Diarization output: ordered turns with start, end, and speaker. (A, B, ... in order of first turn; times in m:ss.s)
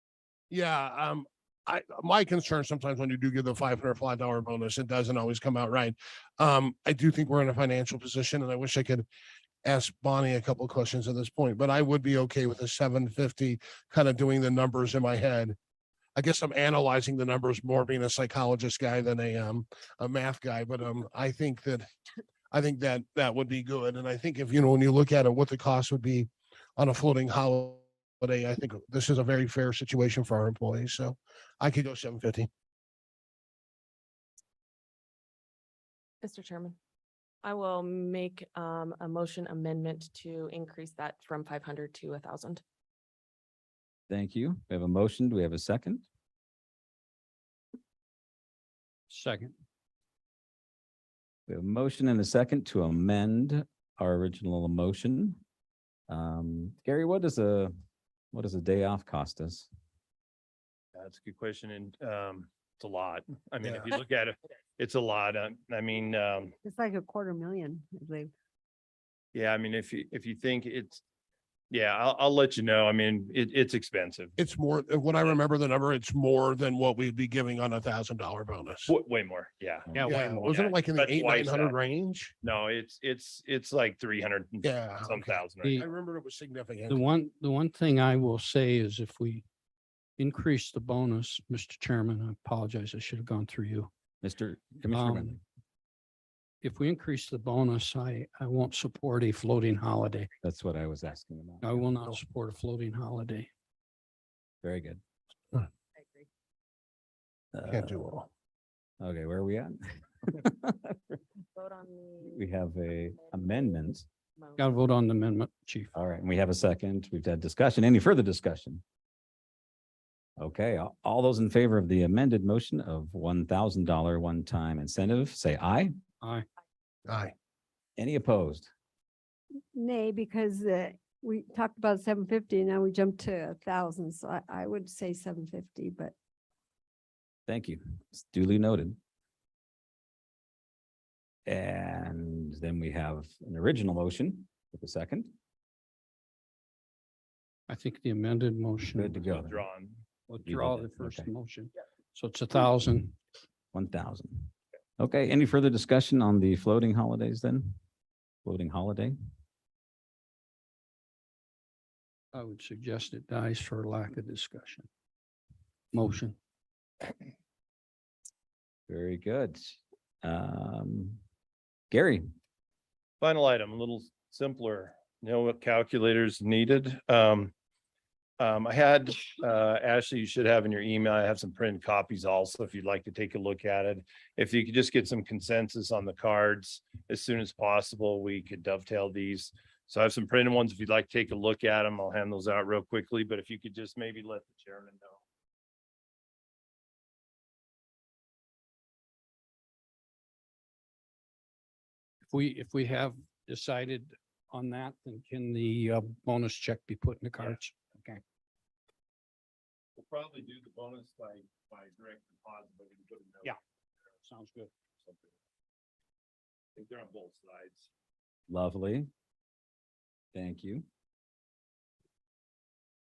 0:00.5-0:09.0 A
0:09.6-0:15.6 A
0:16.2-0:21.9 A
0:22.5-0:32.5 A
0:36.2-0:36.8 B
0:37.4-0:42.6 B
0:44.1-0:46.0 C
0:49.1-0:49.5 D
0:51.5-0:55.4 C
0:56.1-0:57.7 C
0:58.3-0:59.7 C
1:01.0-1:06.5 E
1:03.6-1:03.9 A
1:06.6-1:08.3 F
1:09.3-1:11.0 E
1:11.7-1:14.4 E
1:14.4-1:18.9 A
1:18.9-1:21.8 E
1:19.9-1:20.6 D
1:20.0-1:22.3 A
1:22.4-1:25.8 E
1:24.6-1:27.0 A
1:25.6-1:25.9 D
1:26.9-1:29.4 D
1:30.2-1:33.9 D
1:34.2-1:35.4 C
1:34.9-1:35.4 D
1:36.6-1:40.3 D
1:40.4-1:41.7 C
1:41.6-1:43.5 D
1:44.6-1:45.0 C
1:46.0-1:46.3 B
1:47.5-1:47.9 C
1:47.7-1:48.3 A
1:49.0-1:51.0 C
1:51.5-1:54.8 B
1:52.2-1:54.1 C
1:54.6-1:55.9 D
1:55.9-1:58.8 C
2:00.4-2:05.9 C
2:07.1-2:07.3 A
2:08.0-2:08.7 C
2:09.7-2:16.1 F
2:17.5-2:19.0 C
2:21.4-2:25.3 C
2:27.7-2:29.3 D
2:28.9-2:29.6 C
2:29.3-2:30.0 E
2:30.3-2:33.2 D
2:30.4-2:31.3 C
2:33.7-2:37.8 C
2:38.4-2:39.2 C
2:42.3-2:44.9 D
2:45.9-2:46.4 D
2:48.9-2:51.2 C
2:51.9-2:52.2 C
2:53.2-2:57.5 E
2:58.4-3:15.2 E
3:22.3-3:28.2 D
3:30.0-3:33.6 E
3:34.2-3:34.7 D
3:35.0-3:35.3 E
3:36.8-3:37.9 E
3:38.5-3:39.1 C
3:40.3-3:40.8 C